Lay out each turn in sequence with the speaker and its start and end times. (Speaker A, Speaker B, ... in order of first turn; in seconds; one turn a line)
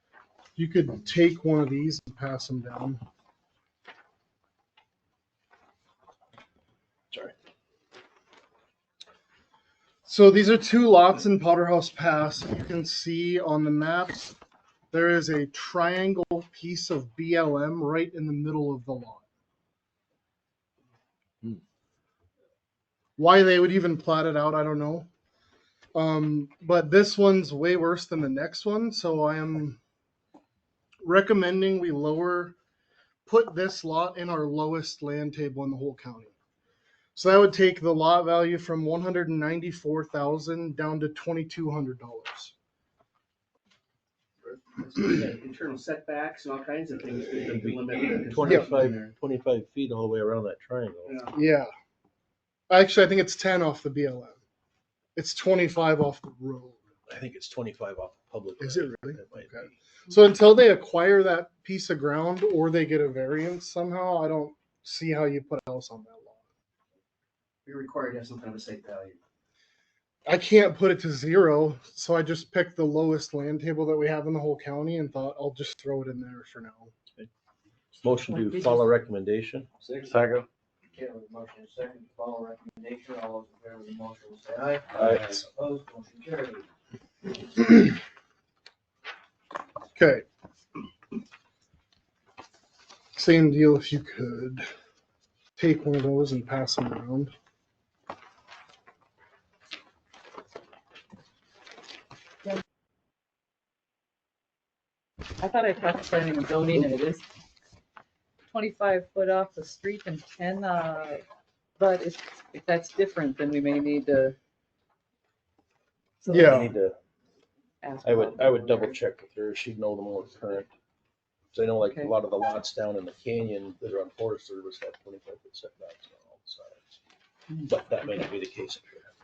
Speaker A: 0.6-3.0
Speaker A: 10.1-14.4
Speaker A: 14.9-19.2
Speaker A: 23.2-25.1
Speaker A: 25.9-29.8
Speaker A: 31.0-32.6
Speaker A: 33.3-36.3
Speaker A: 37.1-42.5
Speaker B: 44.4-49.1
Speaker C: 47.5-51.2
Speaker A: 48.5-48.7
Speaker B: 51.1-51.3
Speaker A: 51.3-51.7
Speaker A: 52.7-54.4
Speaker A: 55.1-56.8
Speaker C: 57.1-59.8
Speaker A: 58.6-66.4
Speaker B: 67.7-69.2
Speaker A: 70.3-76.9
Speaker C: 78.0-80.5
Speaker D: 81.0-86.7
Speaker C: 85.0-85.4
Speaker A: 90.0-90.2
Speaker A: 93.2-94.7
Speaker A: 95.6-97.3
Speaker E: 105.4-107.2
Speaker E: 108.5-111.2
Speaker E: 111.8-114.4
Speaker A: 116.3-116.7
Speaker C: 116.3-117.0
Speaker E: 117.8-119.0
Speaker C: 118.0-120.7
Speaker C: 121.5-126.9
Speaker C: 127.6-129.1